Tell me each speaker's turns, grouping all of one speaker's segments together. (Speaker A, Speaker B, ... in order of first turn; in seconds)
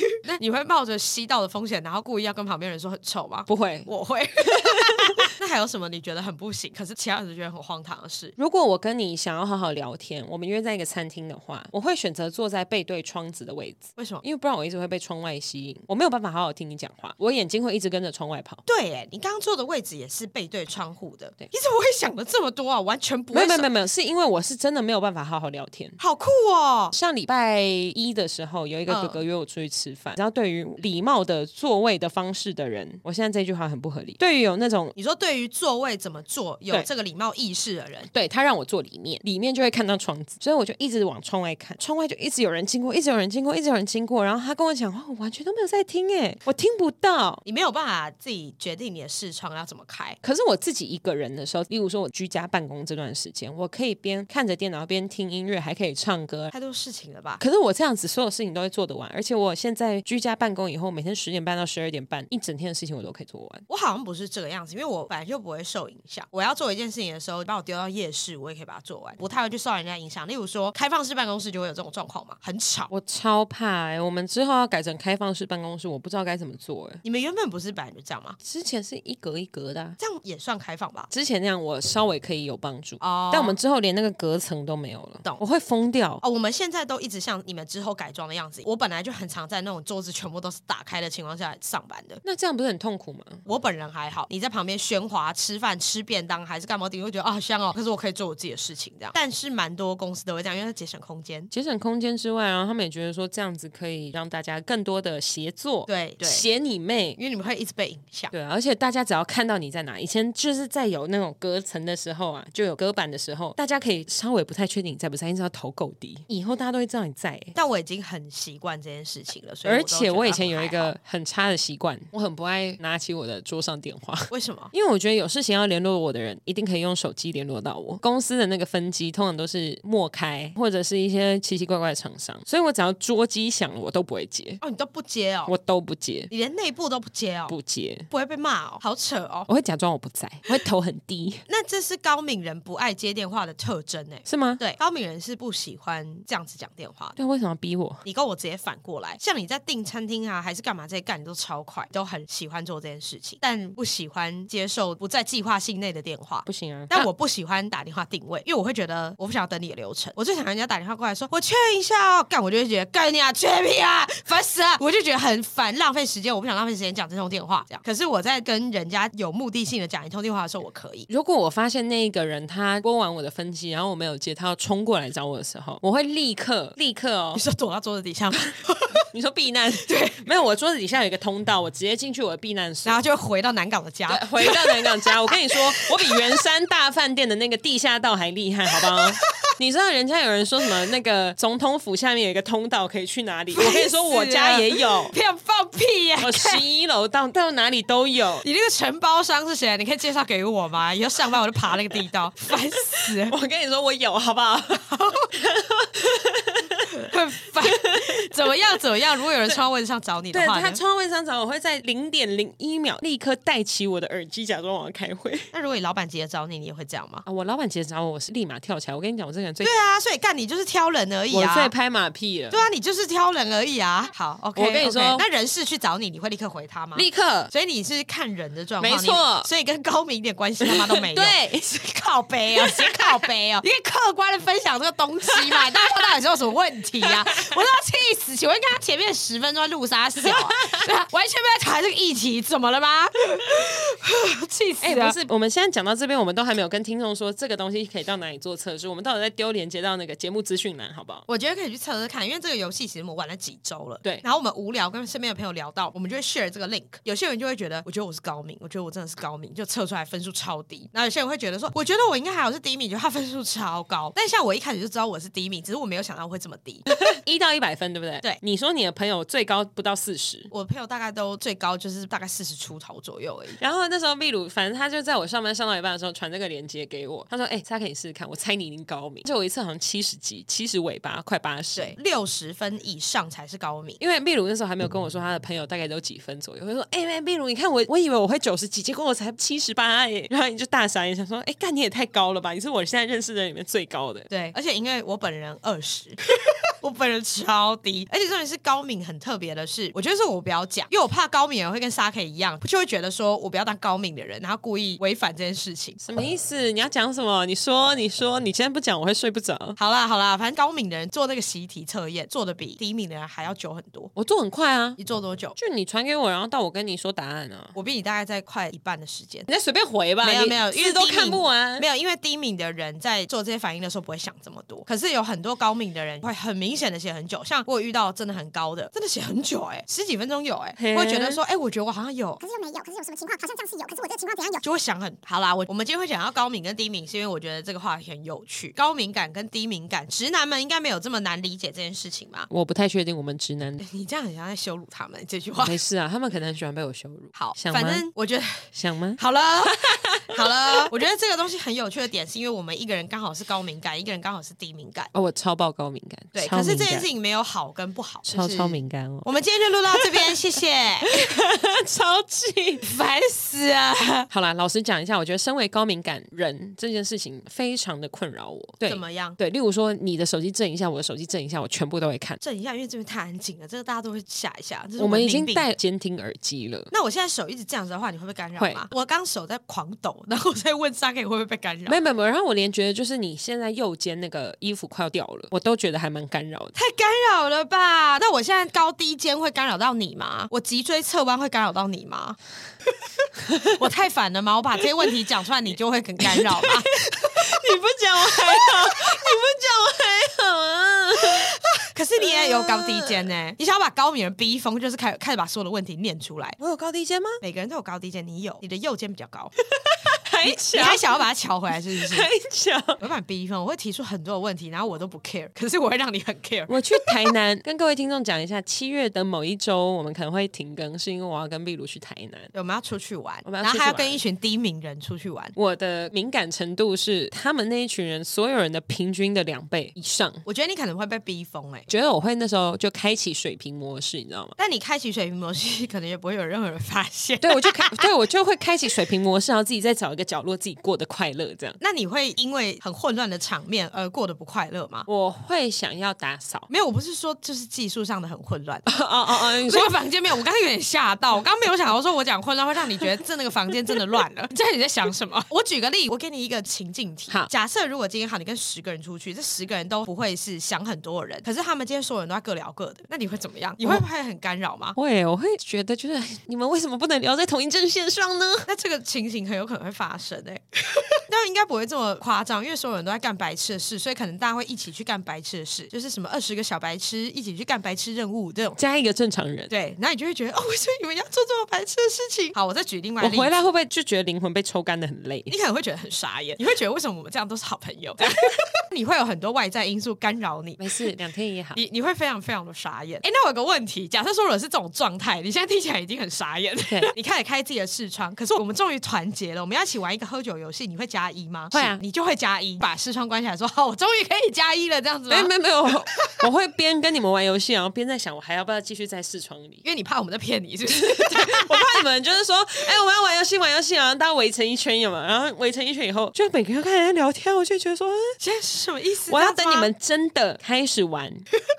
Speaker A: 0.2-8.3, 14.0-14.2, 18.6-23.7, 26.0-26.9, 28.9-29.2, 35.0-38.1, 47.4-50.2, 56.5-57.4, 63.7-72.9, 77.0-78.4, 80.0-81.1, 83.0-83.6, 86.2-92.2, 93.5-101.5, 105.9-106.4, 107.2-108.3, 117.5-120.9, 124.3-124.7, 134.6-135.5, 136.3-137.5, 138.1-139.5, 141.5-147.1, 148.0-171.1, 177.3-179.0, 179.8-180.2, 182.8-186.2, 188.9-189.2, 193.5-196.6, 198.4-203.3, 204.9-205.2, 206.9-210.8, 215.5-217.2, 219.6-221.7, 222.5-245.2, 251.3-266.9, 270.5-273.6, 281.7-284.0, 294.3-296.2, 296.8-306.0, 309.8-314.1, 315.0-315.5, 317.7-319.4, 320.2-332.4, 334.6-342.5, 343.8-345.8, 347.3-355.1, 356.3-361.1, 362.8-364.3, 368.9-369.4, 372.4-375.6, 376.9-382.0, 386.7-392.4, 393.6-397.5, 398.3-399.2, 401.9-406.6, 407.4-409.5, 410.4-412.3, 413.0-417.3, 422.5-425.5, 430.4-431.9, 434.6-438.1, 441.8-445.1, 446.7-464.9, 468.6-478.8, 479.7-483.6, 485.5-491.0, 491.7-505.5, 509.8-511.9, 518.4-519.9
Speaker B: 3.5-3.9, 4.6-5.1, 8.4-18.6, 23.3-26.0, 26.9-34.9, 38.1-47.4, 50.2-56.5, 57.4-63.6, 72.9-77.0, 78.4-80.0, 81.1-86.2, 92.2-93.4, 101.5-107.2, 108.3-117.5, 119.6-134.6, 135.5-136.3, 137.5-138.1, 139.5-141.4, 144.2-144.6, 147.2-148.0, 156.4-157.1, 171.1-177.4, 179.1-183.0, 184.1-195.1, 196.2-198.4, 203.3-207.0, 207.7-208.1, 210.3-215.5, 217.2-219.7, 221.3-222.7, 224.6-225.2, 226.9-227.5, 228.8-229.5, 230.6-231.7, 232.6-233.1, 235.4-235.8, 240.2-240.8, 244.8-251.2, 267.1-270.5, 273.6-281.9, 284.0-294.3, 306.0-309.8, 314.1-315.0, 315.6-317.7, 319.5-321.8, 330.8-331.4, 342.5-343.8, 345.6-348.1, 348.7-349.2, 349.8-350.3, 355.1-357.1, 358.3-359.3, 359.9-360.3, 361.1-362.8, 364.3-372.4, 375.0-376.9, 378.6-378.8, 381.9-386.7, 396.2-401.5, 402.2-403.3, 406.6-407.4, 409.8-411.2, 412.0-413.0, 416.7-422.5, 423.4-424.2, 425.6-430.4, 431.9-434.5, 437.4-441.8, 445.1-446.7, 448.9-449.9, 464.9-468.7, 478.8-479.7, 483.2-485.5, 490.8-491.8, 501.7-502.0, 505.3-509.8, 510.9-518.3, 519.3-521.4
Speaker C: 332.4-334.6